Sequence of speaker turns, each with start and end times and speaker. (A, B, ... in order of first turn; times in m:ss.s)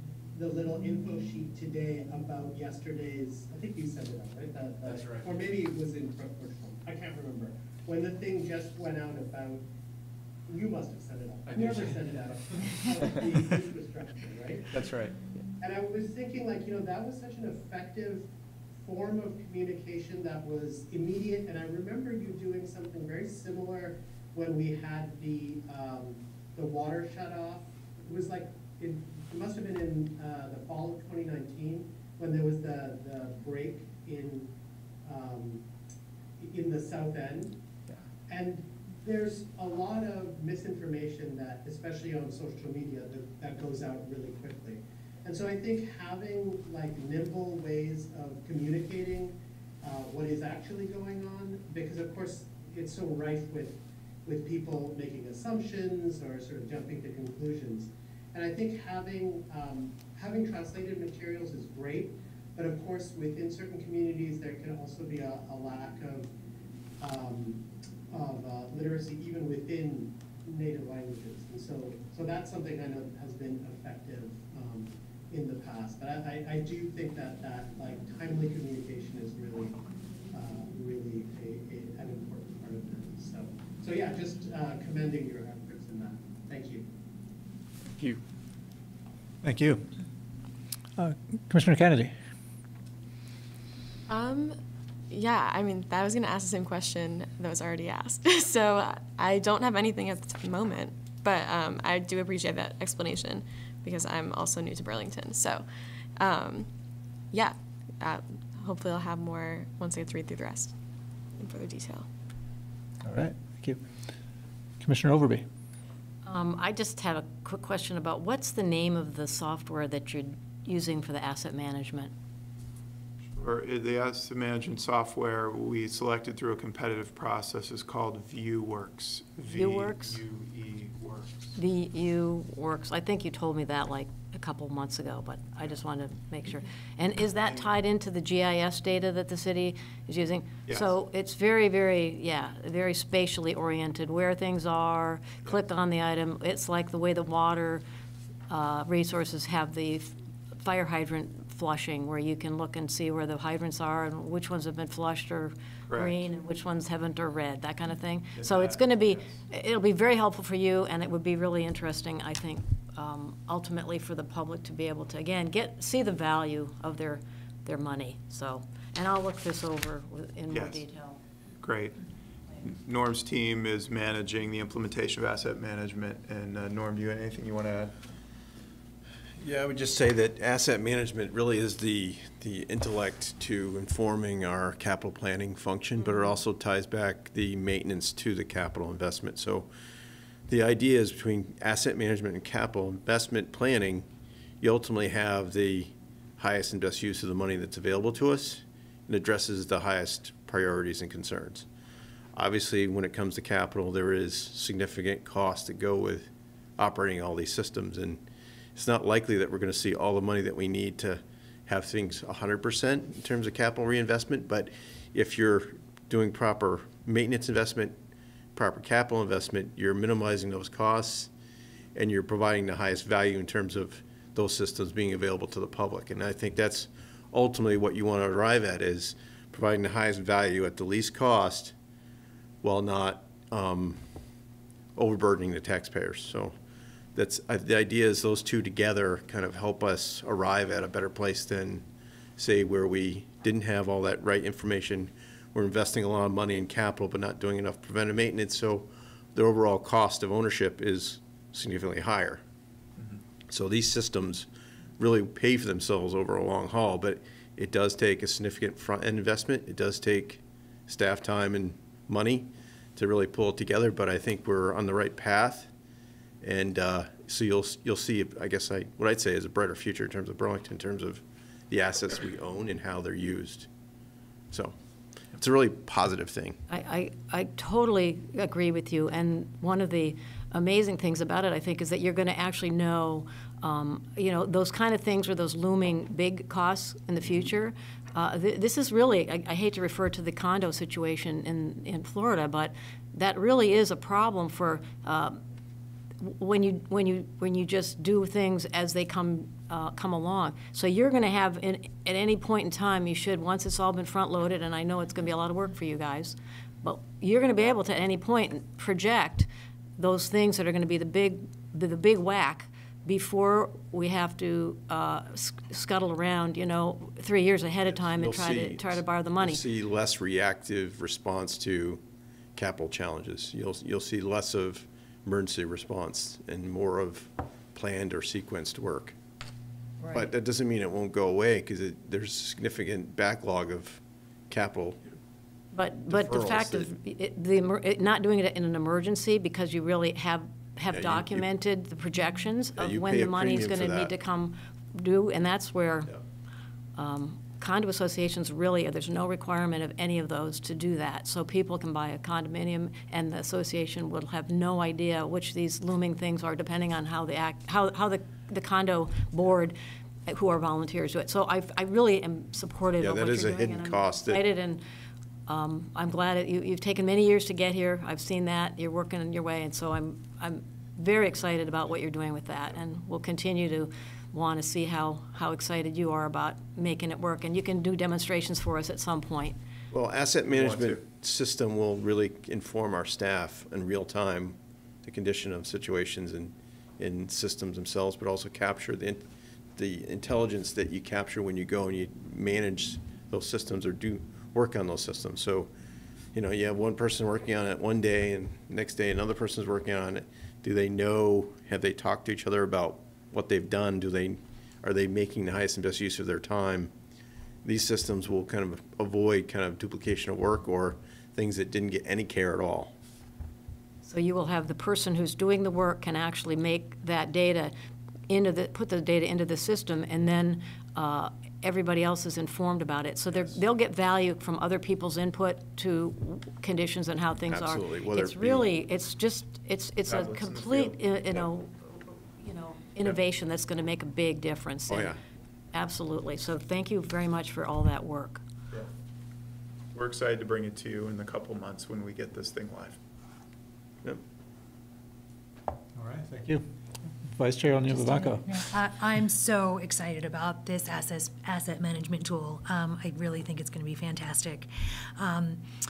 0:00.3-0:09.6 A
0:04.8-0:05.3 B
0:10.5-0:14.7 A
0:11.5-0:13.5 B
0:14.7-0:15.1 B
0:15.6-0:18.2 A
0:18.8-0:34.5 A
0:35.0-0:35.6 A
0:36.4-0:37.6 A
0:38.3-1:06.3 A
1:07.0-1:19.8 A
1:20.3-1:26.9 A
1:29.4-1:29.9 C
1:31.0-1:32.1 C
1:34.1-1:34.6 D
1:35.1-1:46.7 D
1:47.3-1:50.7 D
1:51.4-1:52.1 D
1:53.0-1:53.8 C
1:54.8-1:55.4 C
1:56.2-2:02.1 E
2:03.4-2:11.3 F
2:09.5-2:10.2 E
2:11.6-2:27.8 E
2:28.5-2:51.2 E
2:35.9-2:36.2 F
2:38.4-2:39.4 F
2:50.5-2:50.8 F
2:51.6-2:52.0 F
2:52.6-2:57.9 F
2:59.4-3:09.7 G
3:10.5-3:14.1 G
3:14.6-3:21.7 G
3:22.3-3:28.2 G
3:28.8-3:38.0 G
3:38.5-3:41.3 G
3:41.9-3:51.7 G
3:52.6-3:54.0 G
3:54.9-3:56.5 G
3:57.1-4:01.8 G
4:02.4-4:12.4 G
4:13.5-4:14.5 G
4:15.0-4:25.7 G
4:26.4-4:33.7 G
4:35.3-4:36.6 G
4:36.7-4:55.4 E
4:56.2-5:19.6 E
5:17.8-5:22.0 G
5:22.5-5:29.2 G
5:30.0-5:30.3 H
5:30.1-5:35.0 G
5:35.7-5:46.1 E
5:36.0-5:36.9 G
5:40.9-5:41.5 G
5:42.8-5:44.1 G
5:47.0-6:04.8 E
6:03.0-6:04.5 G
6:05.5-6:19.6 E
6:19.9-6:35.7 G
6:20.5-6:21.0 F
6:36.3-6:46.9 G
6:47.6-6:52.9 G
6:54.0-6:57.7 E
6:58.3-7:15.2 E
7:07.4-7:08.7 G
7:10.0-7:11.0 F
7:14.9-7:15.2 G
7:15.7-7:18.4 E
7:19.9-7:23.0 F
7:25.9-7:26.7 C
7:27.2-7:28.6 C
7:27.9-7:35.7 H